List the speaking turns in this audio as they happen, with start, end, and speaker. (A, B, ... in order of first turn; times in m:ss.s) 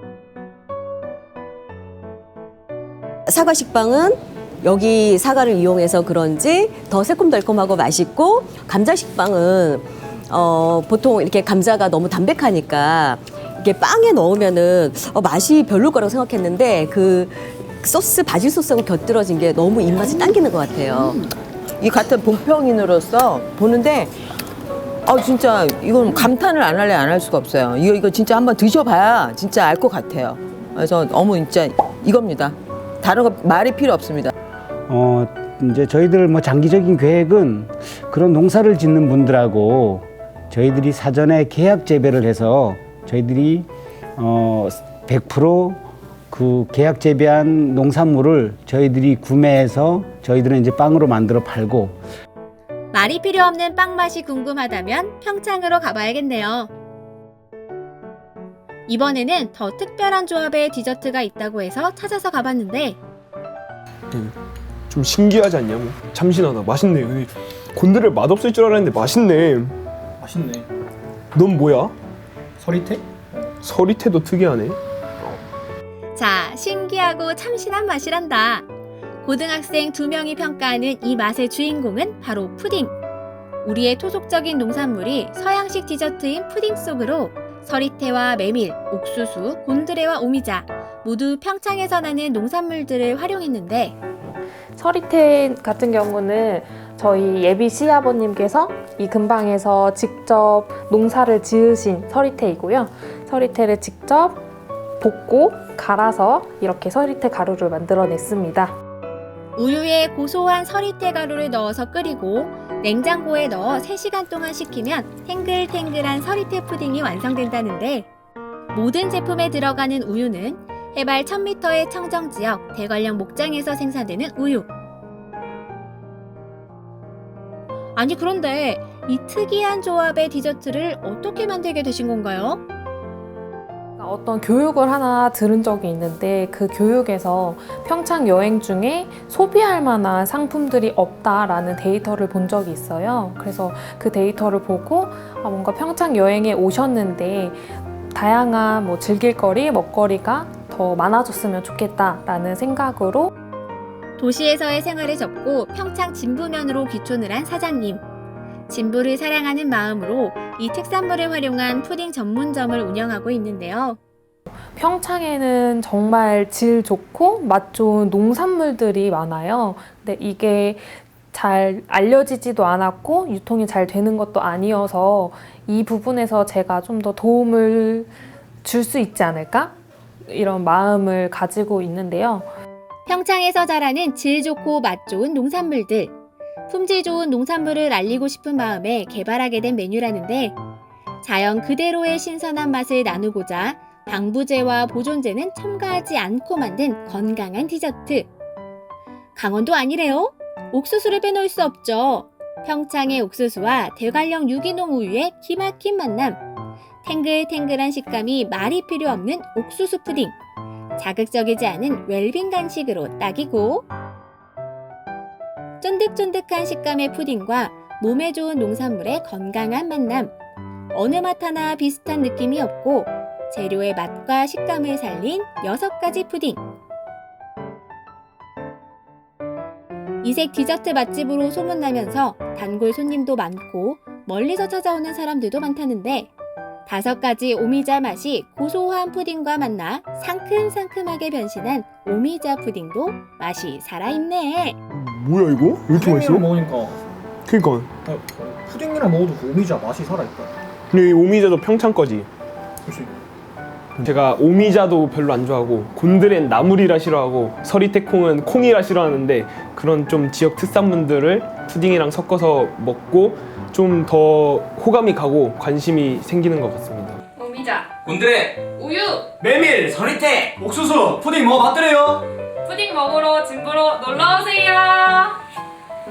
0:03.3-0:21.2 A
0:21.8-0:24.1 B
0:25.0-0:34.3 B
0:34.9-0:52.0 C
0:52.9-0:56.7 D
0:58.9-1:03.0 D
1:04.9-1:09.8 E
1:10.2-1:10.7 F
1:11.3-1:11.9 E
1:12.6-1:13.5 F
1:13.6-1:14.8 E
1:16.1-1:18.6 D
1:19.2-1:23.0 D
1:23.6-1:34.0 D
1:34.8-1:44.4 G
1:45.0-1:48.8 G
1:49.6-1:58.1 D
1:58.7-2:04.7 D
2:08.0-2:12.6 D
2:14.0-2:33.3 G
2:34.2-2:38.0 D
2:38.7-2:44.0 D
2:44.7-2:58.1 G
2:58.6-3:02.5 G
3:03.1-3:06.1 D
3:06.7-3:10.6 D
3:11.2-3:18.3 D
3:19.4-3:26.4 D
3:27.0-3:30.3 D
3:31.0-3:33.8 D
3:35.8-3:40.3 D
3:40.9-3:46.6 D
3:50.2-3:56.3 D
3:56.8-4:04.8 D
4:04.9-4:06.5 E
4:05.9-4:07.0 F
4:07.5-4:07.9 E
4:08.0-4:10.5 F
4:10.9-4:12.3 E
4:12.8-4:13.1 F
4:14.0-4:27.2 E
4:27.4-4:27.9 H
4:28.8-4:29.2 H
4:32.6-4:35.3 H